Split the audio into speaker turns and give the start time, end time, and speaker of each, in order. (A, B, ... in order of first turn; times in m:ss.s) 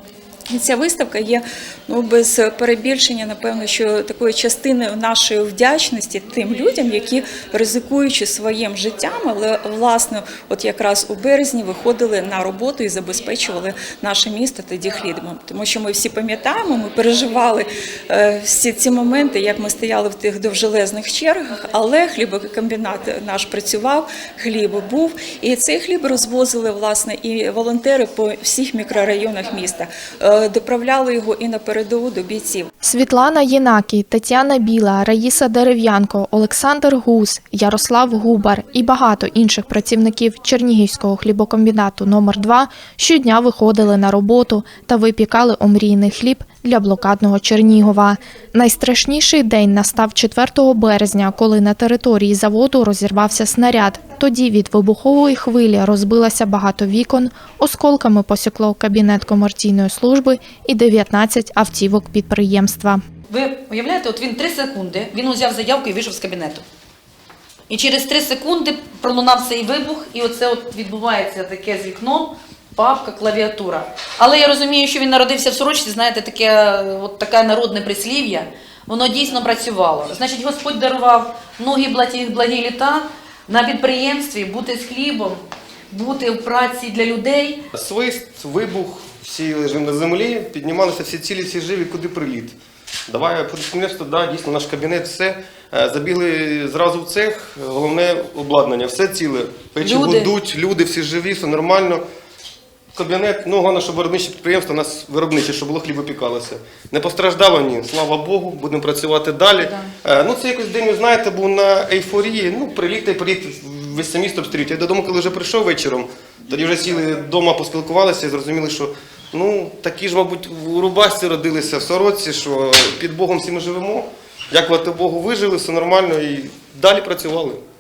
0:00.5-0:32.7 A
0:32.8-1:03.0 B
1:03.3-1:06.6 C
1:07.7-1:27.6 C
1:27.7-1:32.6 D
1:33.1-1:42.0 D
1:39.8-1:40.3 C
1:42.9-2:07.6 D
1:49.6-1:49.9 C